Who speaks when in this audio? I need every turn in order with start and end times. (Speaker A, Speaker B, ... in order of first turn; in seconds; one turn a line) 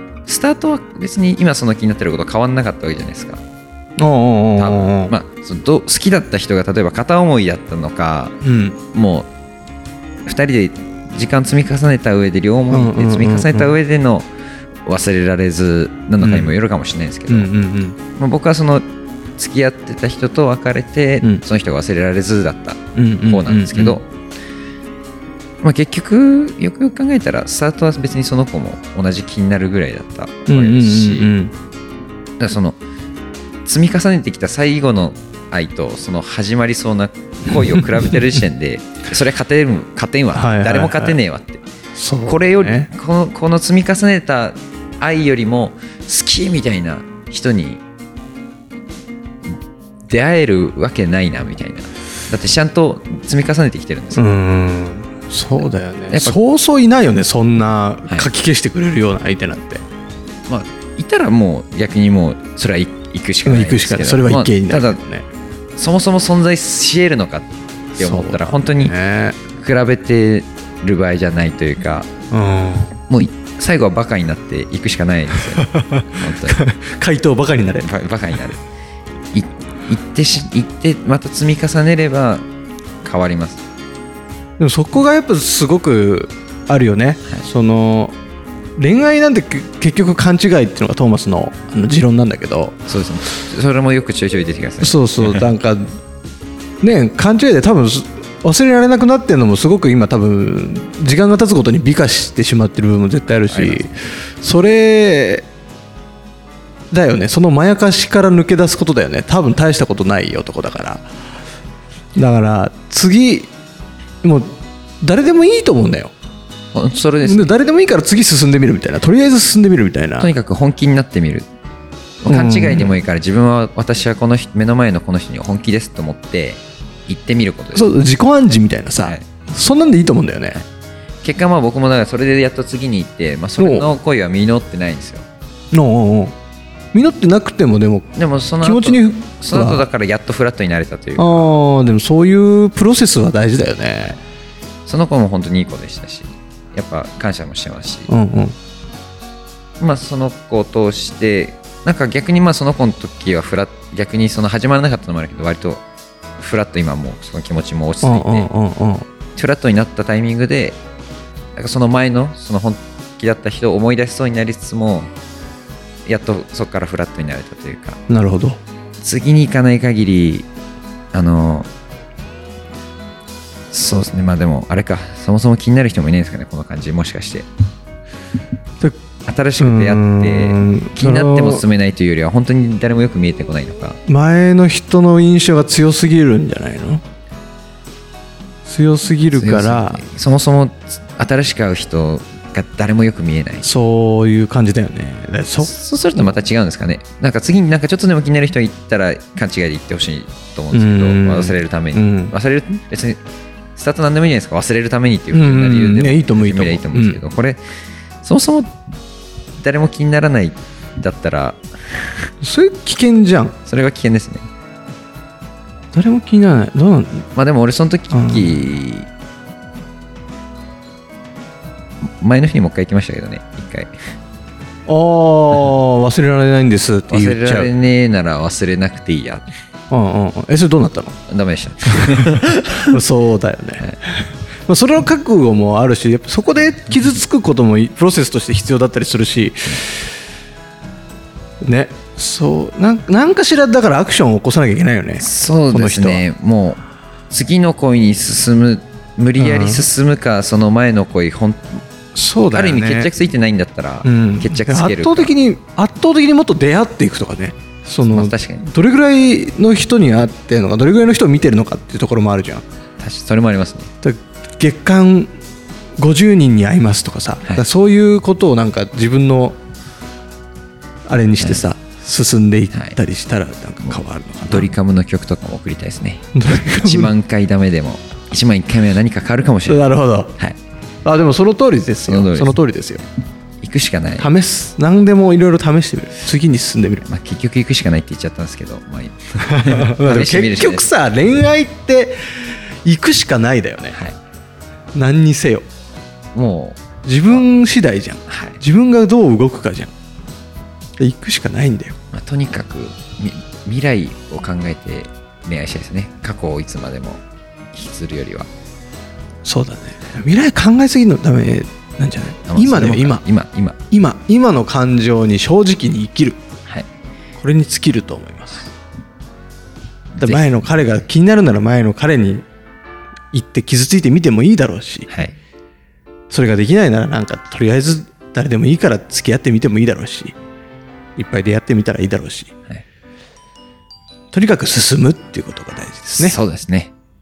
Speaker A: 0.3-3.4
Speaker B: 4.0-5.1
Speaker A: 4.6-8.3
Speaker B: 8.4-8.8
Speaker A: 8.9-9.3
Speaker A: 10.2-14.3
Speaker B: 12.7-13.8
Speaker A: 14.8-17.5
Speaker B: 16.2-16.6
Speaker B: 17.3-18.0
Speaker A: 18.2-18.9
Speaker A: 19.4-24.1
Speaker B: 22.9-24.0
Speaker A: 25.6-31.3
Speaker B: 30.5-31.5
Speaker A: 32.4-32.8
Speaker A: 33.6-41.6
Speaker B: 40.3-41.2
Speaker B: 42.0-42.9
Speaker A: 42.3-47.8
Speaker A: 50.1-54.2
Speaker B: 54.1-59.8
Speaker A: 56.1-56.4
Speaker A: 60.5-65.0
Speaker B: 63.4-65.2
Speaker A: 65.8-68.9
Speaker B: 68.0-69.4
Speaker A: 69.6-72.1
Speaker B: 72.3-72.9
Speaker A: 73.1-76.6
Speaker B: 75.6-77.9
Speaker A: 77.8-78.6
Speaker A: 79.3-82.4
Speaker A: 83.0-83.6
Speaker B: 84.6-88.1
Speaker B: 88.8-92.8
Speaker A: 92.9-95.5
Speaker B: 94.8-96.0
Speaker B: 96.8-105.5
Speaker A: 103.4-103.8
Speaker B: 106.9-111.0
Speaker B: 112.2-113.5
Speaker B: 114.2-116.1
Speaker A: 116.7-117.5
Speaker B: 117.2-120.3
Speaker A: 120.2-121.5
Speaker A: 122.2-127.9
Speaker B: 122.3-122.9
Speaker B: 127.7-130.6
Speaker A: 129.0-129.2
Speaker A: 131.2-135.2
Speaker B: 133.6-133.9
Speaker B: 135.7-136.3
Speaker B: 136.9-139.8
Speaker A: 138.2-141.5
Speaker B: 141.2-144.2
Speaker A: 144.8-148.1
Speaker B: 148.1-148.6
Speaker A: 149.8-155.8
Speaker A: 156.4-158.5
Speaker B: 158.0-159.1
Speaker A: 159.3-160.8
Speaker A: 161.6-165.1
Speaker A: 166.1-168.0
Speaker B: 168.1-168.6
Speaker A: 169.0-170.4
Speaker A: 171.1-171.7
Speaker A: 173.7-177.5
Speaker A: 179.2-184.0
Speaker B: 179.6-181.6
Speaker B: 184.1-187.0
Speaker B: 188.7-190.0
Speaker A: 189.3-193.7
Speaker B: 193.6-195.7
Speaker A: 195.6-203.2
Speaker B: 200.7-202.3
Speaker A: 203.8-207.6
Speaker B: 205.3-207.2
Speaker A: 208.2-208.7
Speaker A: 209.6-212.0
Speaker B: 212.4-213.6
Speaker A: 213.7-214.5
Speaker B: 215.9-217.3
Speaker A: 217.3-219.1
Speaker B: 218.1-218.6
Speaker A: 222.2-223.9
Speaker B: 224.9-227.7
Speaker A: 227.1-229.4
Speaker B: 229.9-231.2
Speaker A: 231.3-233.0
Speaker B: 232.9-239.9
Speaker B: 241.6-246.2
Speaker A: 245.2-251.8
Speaker B: 249.4-249.9
Speaker B: 252.1-253.1
Speaker A: 252.5-255.3
Speaker B: 254.0-262.6
Speaker A: 258.1-258.6
Speaker A: 263.0-263.9
Speaker B: 264.0-265.3
Speaker B: 266.0-269.6
Speaker B: 271.1-274.7
Speaker A: 271.4-271.6
Speaker A: 272.7-273.0
Speaker A: 273.9-279.8
Speaker B: 276.4-277.1
Speaker B: 279.6-280.3
Speaker B: 281.0-283.0
Speaker A: 282.1-282.5
Speaker A: 283.6-284.3
Speaker B: 284.2-287.0
Speaker A: 287.0-290.9
Speaker B: 289.5-292.2
Speaker B: 292.8-293.9
Speaker B: 294.9-295.6
Speaker A: 296.3-297.4
Speaker B: 297.0-299.9
Speaker A: 298.3-298.6
Speaker B: 301.0-301.9
Speaker A: 302.1-307.2
Speaker A: 307.7-308.5
Speaker B: 309.4-313.2
Speaker A: 312.5-313.8
Speaker B: 313.9-316.4
Speaker B: 317.4-318.7
Speaker A: 320.1-320.5
Speaker B: 320.2-322.4
Speaker B: 323.3-325.1
Speaker A: 325.1-325.3
Speaker B: 326.3-330.3
Speaker B: 331.2-332.5
Speaker B: 334.3-336.4
Speaker A: 336.2-336.9